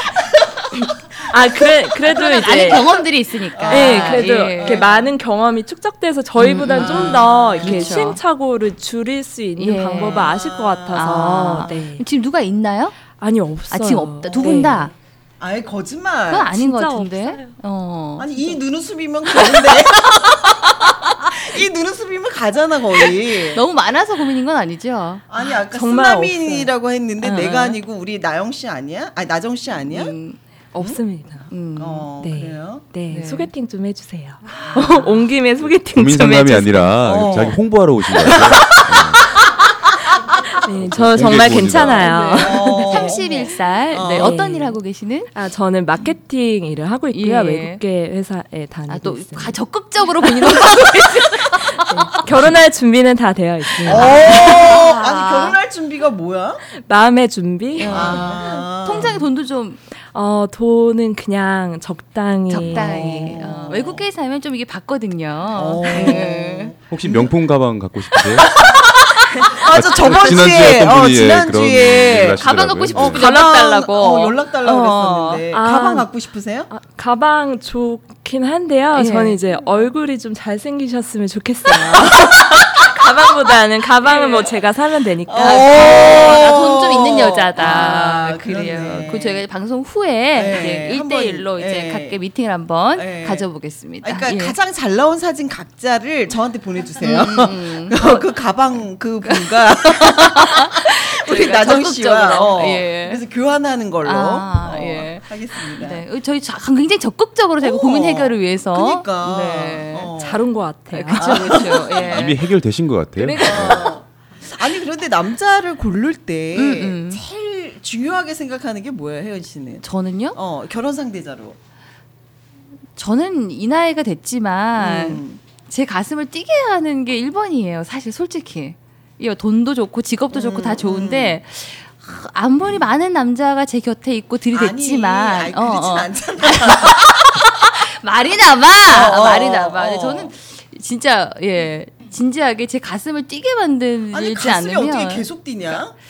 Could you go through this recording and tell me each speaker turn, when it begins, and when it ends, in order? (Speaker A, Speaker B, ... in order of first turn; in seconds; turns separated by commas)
Speaker A: 0.7-2.9, Speaker B: 2.1-4.9, Speaker C: 2.6-3.0, Speaker C: 3.5-5.1, Speaker A: 3.7-12.0, Speaker B: 6.4-8.2, Speaker C: 6.7-8.1, Speaker B: 9.6-10.3, Speaker C: 10.0-11.8, Speaker B: 10.9-13.0, Speaker A: 13.1-14.9, Speaker B: 13.7-14.9, Speaker C: 14.3-16.5, Speaker B: 16.3-18.3, Speaker A: 16.5-17.6, Speaker C: 18.2-23.6, Speaker B: 21.1-21.3, Speaker B: 23.5-25.2, Speaker C: 25.3-30.1, Speaker A: 25.5-26.7, Speaker B: 27.2-27.8, Speaker B: 29.9-30.4, Speaker A: 30.7-31.5, Speaker B: 31.5-32.1, Speaker C: 31.8-32.9, Speaker A: 32.2-37.1, Speaker B: 33.1-33.5, Speaker C: 34.6-35.1, Speaker D: 35.8-39.2, Speaker C: 37.0-37.6, Speaker C: 38.2-38.5, Speaker A: 40.6-43.2, Speaker D: 40.7-42.1, Speaker B: 42.0-45.3, Speaker C: 42.3-44.4, Speaker A: 44.1-44.8, Speaker A: 45.3-49.6, Speaker B: 47.1-47.8, Speaker B: 48.9-52.3, Speaker A: 50.5-50.7, Speaker A: 51.7-54.4, Speaker B: 53.7-55.6, Speaker C: 53.9-56.6, Speaker A: 56.7-58.4, Speaker B: 57.8-59.8, Speaker C: 57.9-59.2, Speaker A: 60.0-63.4, Speaker B: 62.5-66.7, Speaker C: 62.6-64.1, Speaker C: 65.5-67.3, Speaker D: 66.9-68.6, Speaker C: 68.1-76.7, Speaker D: 69.7-73.2, Speaker B: 72.4-75.4, Speaker A: 75.5-76.1, Speaker A: 76.7-86.1, Speaker B: 78.9-79.4, Speaker C: 79.5-79.8, Speaker B: 84.1-84.3, Speaker C: 85.3-89.4, Speaker B: 85.4-94.6, Speaker C: 90.3-92.2, Speaker C: 93.0-93.5, Speaker C: 94.0-106.0, Speaker B: 97.0-98.3, Speaker B: 99.2-103.2, Speaker B: 104.0-110.1, Speaker C: 107.6-110.5, Speaker A: 110.1-111.8, Speaker B: 110.9-112.4, Speaker C: 111.2-112.3, Speaker D: 112.1-113.9, Speaker B: 113.2-113.8, Speaker C: 113.4-121.6, Speaker B: 116.5-117.2, Speaker B: 119.8-120.4, Speaker B: 123.0-145.2, Speaker C: 124.8-125.4, Speaker C: 130.3-131.4, Speaker C: 134.5-137.4, Speaker C: 138.8-140.3, Speaker C: 144.1-145.9